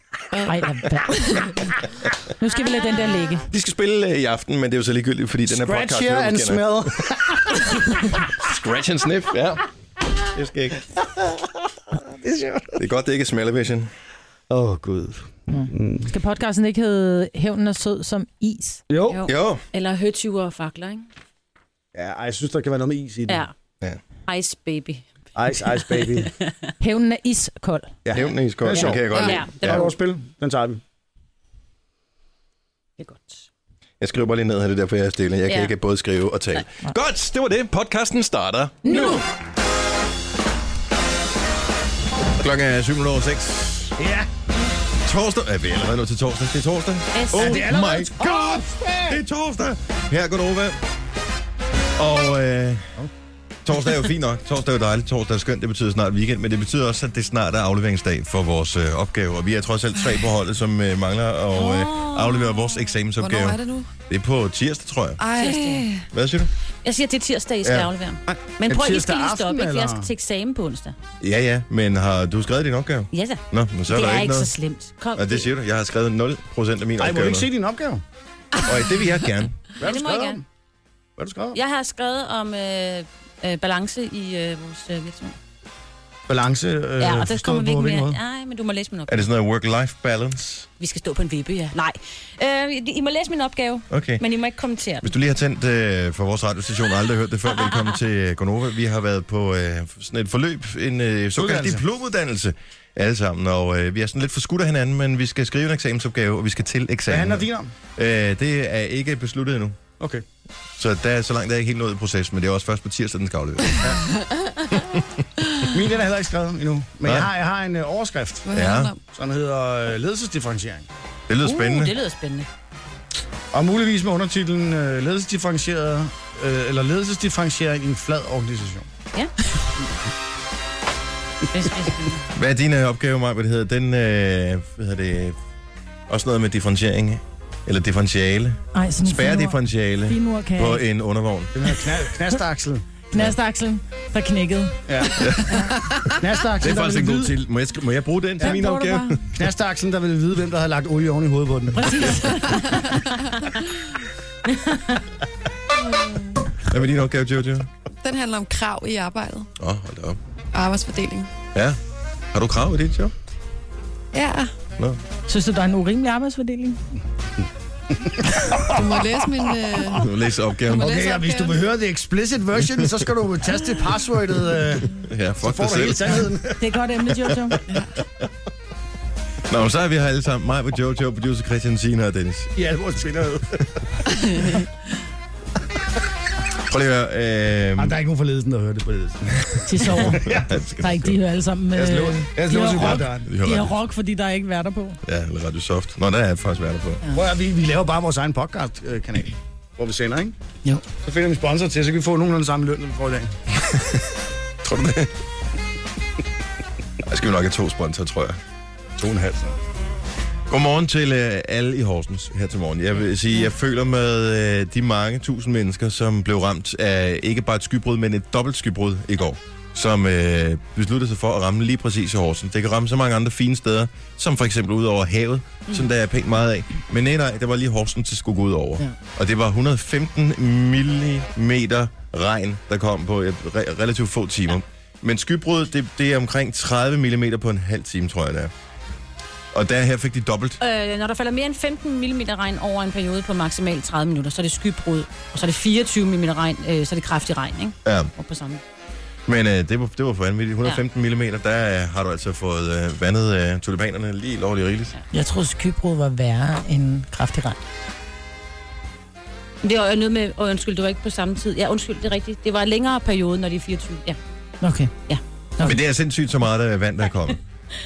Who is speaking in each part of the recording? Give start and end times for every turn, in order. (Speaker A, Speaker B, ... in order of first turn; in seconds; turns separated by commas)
Speaker A: 0.3-0.6, Speaker B: 0.4-1.6, Speaker A: 1.1-1.5, Speaker B: 2.4-3.5, Speaker C: 3.5-6.9, Speaker D: 5.5-7.8, Speaker C: 8.3-9.6, Speaker C: 10.3-10.8, Speaker D: 12.0-12.8, Speaker C: 12.8-13.9, Speaker D: 14.5-16.1, Speaker B: 15.5-18.8, Speaker D: 18.9-19.2, Speaker E: 19.1-21.1, Speaker C: 19.2-19.6, Speaker D: 21.9-23.4, Speaker E: 23.3-23.5, Speaker E: 24.3-25.0, Speaker D: 25.3-26.3, Speaker E: 25.9-26.5, Speaker B: 26.8-27.9, Speaker D: 28.0-30.8, Speaker C: 28.1-29.9, Speaker E: 28.1-29.9, Speaker A: 29.1-29.4, Speaker E: 33.0-33.5, Speaker C: 34.0-39.2, Speaker E: 35.5-35.7, Speaker C: 42.4-44.0, Speaker D: 44.0-44.3, Speaker C: 45.0-50.8, Speaker E: 47.1-47.7, Speaker D: 47.4-49.2, Speaker C: 52.0-52.9, Speaker C: 53.6-65.2, Speaker E: 61.5-62.9, Speaker A: 63.2-63.9, Speaker A: 65.2-66.0, Speaker E: 65.4-65.8, Speaker C: 66.1-66.5, Speaker E: 66.8-71.0, Speaker C: 67.6-67.9, Speaker D: 68.3-70.1, Speaker C: 71.2-74.5, Speaker E: 73.1-75.5, Speaker C: 75.1-77.5, Speaker D: 77.0-78.0, Speaker C: 78.6-79.6, Speaker D: 79.8-80.4, Speaker E: 79.8-80.4, Speaker D: 81.2-81.6, Speaker E: 81.5-85.3, Speaker D: 86.3-88.2, Speaker E: 87.0-89.3, Speaker C: 89.1-90.7, Speaker E: 90.8-95.1, Speaker C: 93.9-94.2, Speaker C: 95.0-107.4, Speaker D: 101.3-101.8, Speaker D: 107.1-107.7, Speaker C: 108.0-109.8, Speaker D: 110.0-110.2, Speaker C: 110.8-113.9, Speaker A: 114.2-114.5, Speaker C: 114.8-115.4, Speaker D: 115.7-120.9, Speaker C: 117.0-117.3, Speaker A: 118.5-119.0, Speaker C: 118.5-118.9, Speaker C: 121.3-122.0, Speaker E: 121.4-122.5, Speaker D: 123.5-128.9, Speaker E: 131.5-132.2, Speaker C: 132.3-135.4, Speaker C: 136.1-141.5, Speaker B: 138.7-140.8, Speaker D: 141.5-142.8, Speaker B: 143.1-144.8, Speaker D: 144.9-145.3, Speaker C: 145.2-145.6, Speaker B: 145.4-145.7, Speaker A: 145.9-146.2, Speaker D: 146.2-147.3, Speaker C: 146.6-149.2, Speaker B: 148.4-149.1, Speaker A: 148.5-148.9, Speaker D: 149.3-152.3, Speaker B: 151.8-152.4, Speaker A: 152.4-153.5, Speaker A: 155.7-156.6, Speaker C: 156.7-157.7, Speaker A: 158.0-159.5, Speaker C: 159.6-160.2, Speaker A: 160.5-161.3, Speaker C: 162.3-163.1, Speaker A: 164.1-164.5, Speaker B: 165.3-166.8, Speaker D: 168.0-169.0, Speaker A: 168.7-170.0, Speaker C: 169.9-171.0, Speaker A: 170.7-171.6, Speaker D: 170.8-176.6, Speaker C: 174.9-176.4, Speaker B: 176.6-177.6, Speaker C: 177.1-177.6, Speaker A: 177.7-178.0, Speaker C: 179.5-182.5, Speaker D: 182.6-183.6, Speaker A: 184.4-184.6, Speaker C: 186.7-188.0, Speaker D: 187.8-190.5, Speaker B: 189.7-190.2, Speaker C: 190.0-191.2, Speaker B: 190.8-195.0, Speaker D: 191.8-193.3, Speaker C: 192.7-193.7, Speaker C: 195.0-197.0, Speaker D: 197.1-200.3, Speaker D: 201.0-203.3, Speaker C: 203.6-204.0, Speaker C: 204.6-205.1, Speaker C: 207.0-208.4, Speaker D: 209.0-209.6, Speaker C: 210.5-238.5, Speaker C: 239.5-240.6, Speaker E: 240.6-248.6, Speaker C: 247.8-248.1, Speaker C: 249.2-254.9, Speaker B: 255.1-257.6, Speaker E: 259.6-264.2, Speaker B: 264.6-264.9, Speaker C: 265.6-267.4